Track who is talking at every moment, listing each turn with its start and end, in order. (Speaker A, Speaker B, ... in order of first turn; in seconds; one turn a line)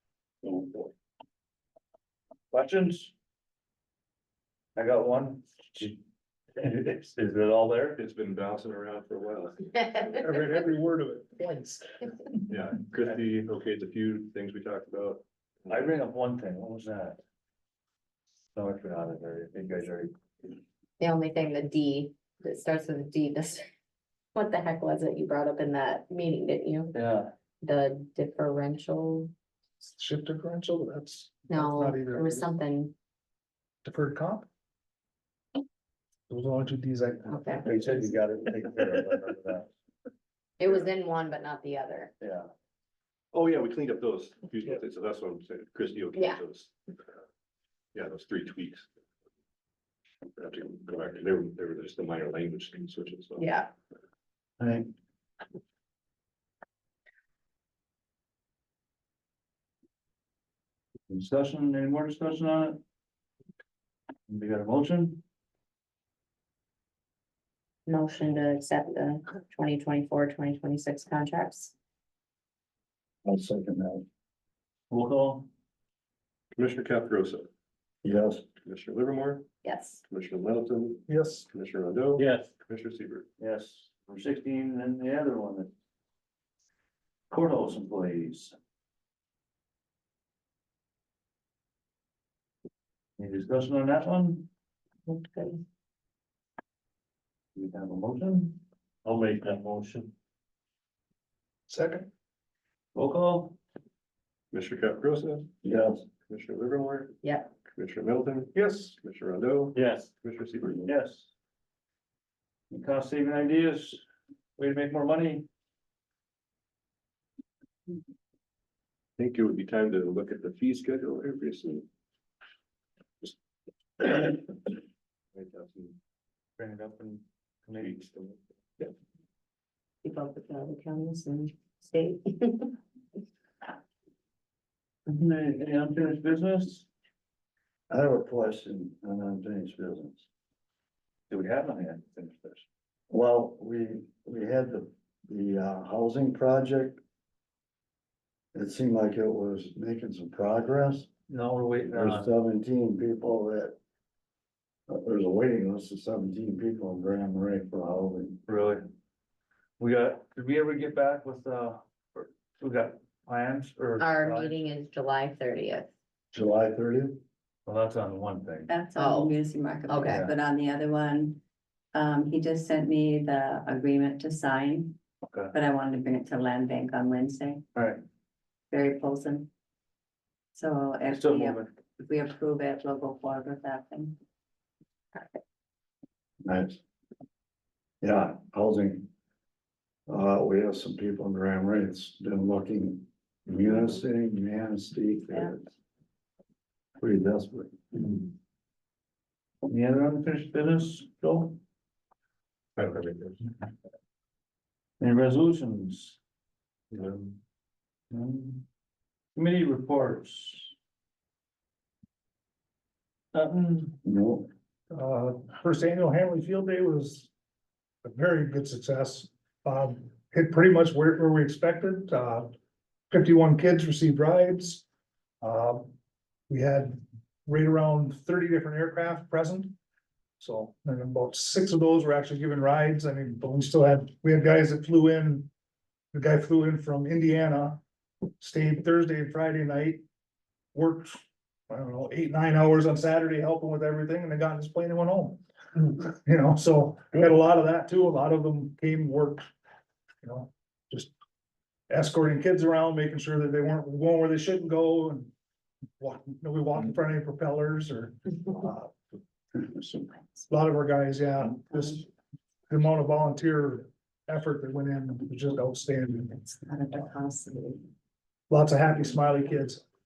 Speaker A: 0.4-0.9
Speaker A: 2.5-3.1
Speaker A: 4.8-6.0
Speaker A: 6.5-8.0
Speaker B: 8.0-10.4
Speaker C: 10.2-12.1
Speaker B: 12.5-15.8
Speaker A: 15.7-17.2
Speaker A: 18.5-20.6
Speaker D: 21.0-23.6
Speaker D: 24.3-26.9
Speaker A: 26.9-27.3
Speaker D: 27.6-29.3
Speaker C: 29.8-32.5
Speaker D: 31.5-32.9
Speaker C: 33.8-34.5
Speaker C: 36.3-37.6
Speaker D: 37.3-37.6
Speaker A: 37.6-39.7
Speaker D: 40.6-42.1
Speaker A: 42.2-42.5
Speaker B: 43.3-46.7
Speaker D: 46.1-46.4
Speaker B: 47.9-48.9
Speaker B: 50.4-53.4
Speaker E: 54.6-54.9
Speaker A: 61.1-62.8
Speaker A: 64.3-65.2
Speaker D: 67.9-71.7
Speaker E: 73.2-74.0
Speaker A: 74.9-75.5
Speaker B: 76.5-77.5
Speaker E: 78.0-78.5
Speaker B: 78.6-79.5
Speaker D: 79.6-80.0
Speaker B: 80.1-83.2
Speaker C: 81.1-81.5
Speaker A: 82.2-82.5
Speaker A: 83.4-85.7
Speaker A: 87.3-88.5
Speaker A: 93.2-94.5
Speaker D: 95.1-95.6
Speaker A: 97.5-100.1
Speaker C: 101.7-102.1
Speaker A: 102.9-103.6
Speaker B: 104.5-105.5
Speaker E: 105.6-106.0
Speaker B: 106.3-110.9
Speaker D: 107.2-107.5
Speaker C: 108.5-108.9
Speaker A: 109.7-110.1
Speaker A: 110.8-111.3
Speaker A: 112.7-114.0
Speaker A: 114.6-115.5
Speaker B: 119.2-121.8
Speaker B: 124.0-124.4
Speaker B: 125.3-126.0
Speaker A: 126.6-128.4
Speaker B: 127.8-128.1
Speaker D: 130.0-132.8
Speaker A: 135.1-136.9
Speaker E: 137.9-140.2
Speaker A: 141.3-142.6
Speaker E: 143.1-147.0
Speaker E: 148.5-151.1
Speaker A: 151.3-152.3
Speaker E: 151.9-153.7
Speaker E: 154.9-158.4
Speaker A: 158.4-158.8
Speaker A: 159.8-164.7
Speaker D: 164.0-165.9
Speaker E: 166.3-167.2
Speaker A: 167.7-168.7
Speaker F: 168.7-171.4
Speaker D: 168.9-169.3
Speaker D: 169.9-170.2
Speaker A: 170.1-170.3
Speaker F: 171.9-175.0
Speaker A: 175.2-175.5
Speaker F: 175.5-177.6
Speaker A: 177.7-178.0
Speaker F: 178.7-179.5
Speaker F: 180.5-184.2
Speaker A: 181.1-181.7
Speaker E: 186.4-186.8
Speaker E: 188.0-189.1
Speaker E: 190.1-195.7
Speaker E: 197.0-197.9
Speaker A: 199.6-201.6
Speaker B: 202.8-203.4
Speaker A: 205.0-206.2
Speaker B: 206.9-207.3
Speaker A: 208.1-208.6
Speaker A: 209.3-210.7
Speaker A: 213.3-214.0
Speaker E: 214.0-214.5
Speaker C: 214.9-217.3
Speaker C: 218.0-222.6
Speaker C: 223.1-224.8
Speaker C: 225.4-225.9
Speaker C: 226.5-229.8
Speaker C: 230.4-235.5
Speaker C: 236.1-237.8
Speaker C: 238.4-240.0
Speaker C: 240.7-249.4
Speaker C: 250.2-251.1
Speaker C: 251.9-255.3
Speaker C: 256.0-258.9
Speaker F: 259.8-260.1
Speaker C: 260.5-262.1
Speaker C: 262.7-266.3
Speaker F: 266.3-267.9
Speaker C: 268.5-269.8